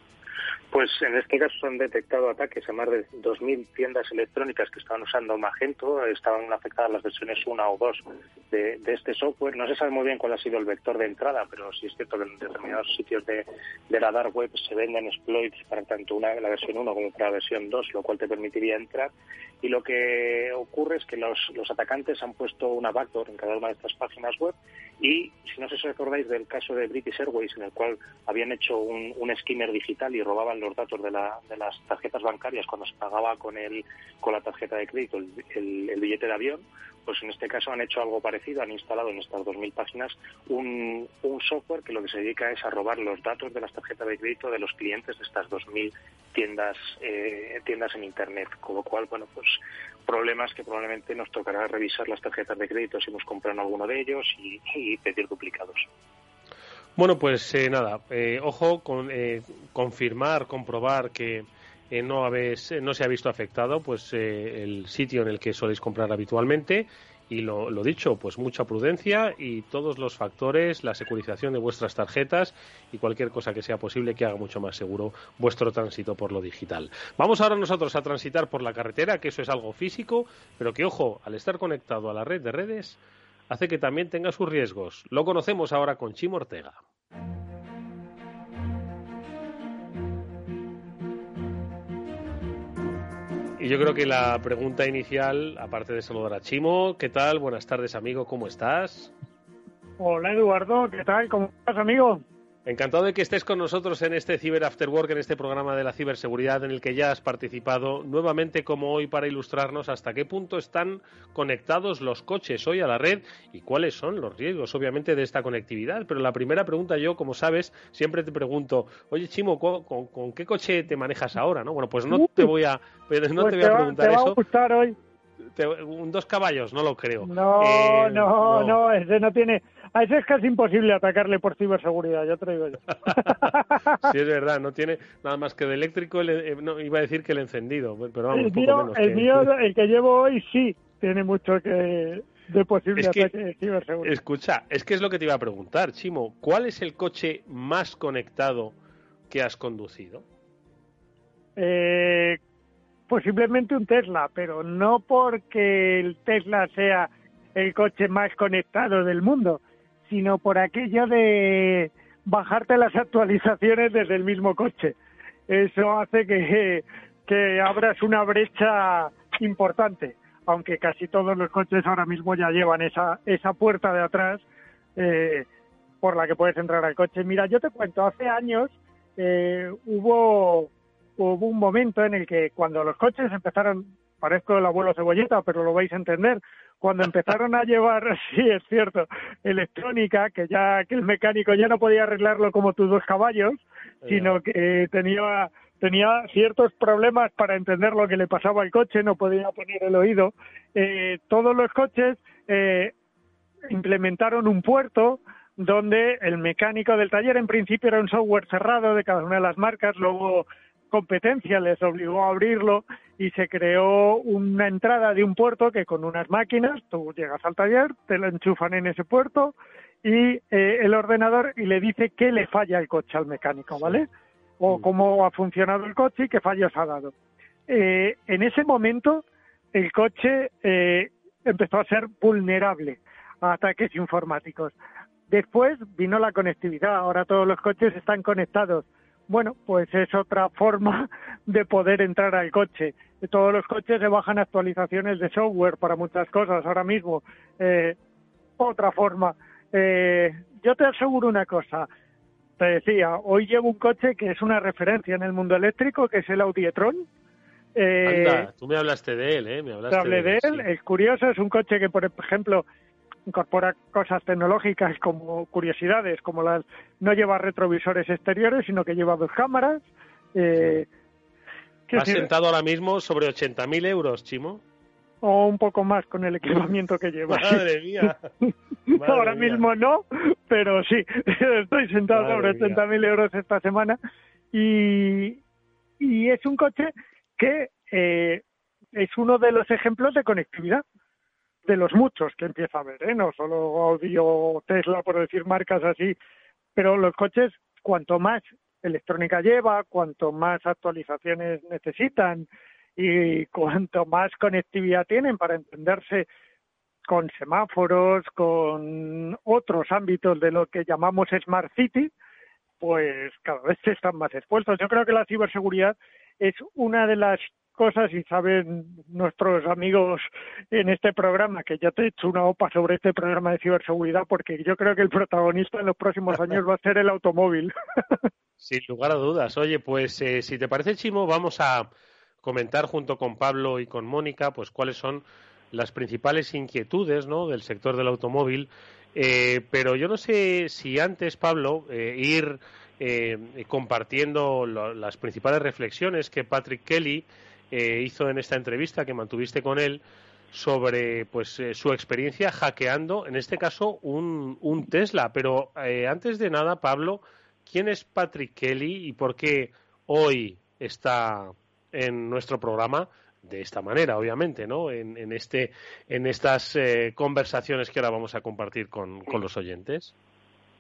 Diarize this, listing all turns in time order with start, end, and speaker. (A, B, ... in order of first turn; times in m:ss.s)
0:00.7-0:55.9 A
0:57.0-1:26.8 B
1:33.6-1:39.1 B
1:40.0-1:42.2 C
1:42.7-2:04.4 B
2:02.1-2:02.5 C
2:03.4-2:05.0 C
2:05.6-2:08.8 B
2:07.2-2:14.1 C
2:13.1-2:19.5 B
2:18.3-2:24.1 C
2:23.0-2:23.3 B
2:24.0-2:28.7 B
2:29.3-2:30.2 B
2:31.6-2:32.4 C
2:33.1-2:45.0 C
2:45.5-2:54.4 C
2:55.0-2:55.5 C
2:56.0-3:22.9 C
3:14.0-3:14.4 B
3:23.7-3:44.1 C
3:44.6-3:47.1 C
3:47.7-3:54.8 C
3:55.3-4:08.0 C
4:08.6-4:11.9 C
4:12.6-4:17.1 C
4:17.8-4:18.5 C
4:18.0-4:20.7 B
4:19.9-4:22.7 C
4:23.3-4:29.8 C
4:30.4-4:30.9 C
4:31.9-4:32.3 C
4:31.9-4:34.6 B
4:35.2-4:38.1 C
4:37.3-4:38.3 B
4:38.9-4:44.0 C
4:38.9-4:39.6 B
4:42.1-4:42.8 B
4:44.5-4:45.4 C
4:46.0-4:48.4 C
4:49.0-4:50.8 C
4:51.7-4:56.2 C
4:56.8-5:06.3 C
5:07.1-5:12.1 C
5:12.8-5:28.3 C
5:28.6-5:31.9 B
5:32.4-5:50.0 B
5:50.5-6:10.1 B